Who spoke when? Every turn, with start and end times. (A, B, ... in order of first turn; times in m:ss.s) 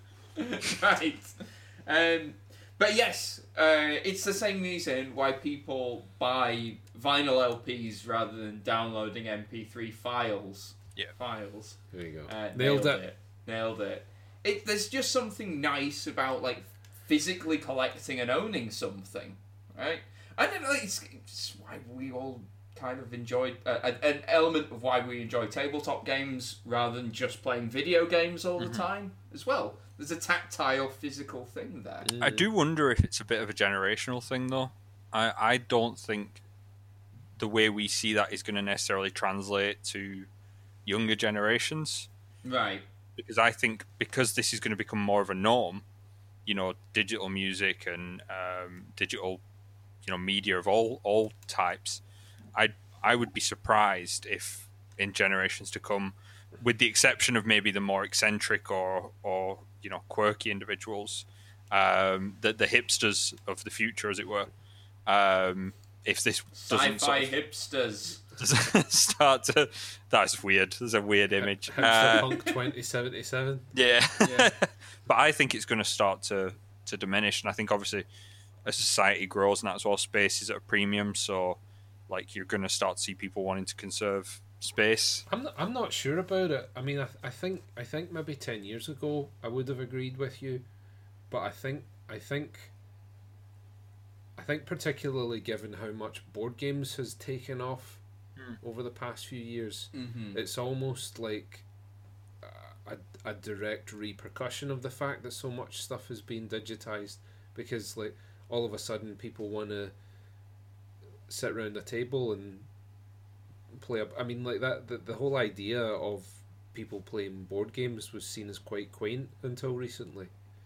0:00.4-0:32.1 A
0:11.9-0:13.0 B
0:32.0-0:32.4 B
0:32.2-0:36.4 C
0:37.4-0:40.3 C
0:40.8-0:42.1 C
0:42.4-0:42.8 A
0:43.2-0:45.8 C
0:46.4-0:49.4 C
0:50.0-0:52.0 C
0:52.5-1:04.5 C
1:05.1-1:07.3 C
1:06.5-1:08.2 A
1:08.4-1:12.5 C
1:11.7-1:13.7 B
1:13.7-1:18.0 C
1:14.2-1:14.5 A
1:18.6-1:25.2 C
1:25.3-1:30.6 B
1:31.3-1:32.7 B
1:34.4-1:38.0 B
1:38.6-1:41.6 B
1:39.9-1:40.4 A
1:42.4-1:49.9 B
1:51.3-1:52.7 B
1:53.7-2:00.3 B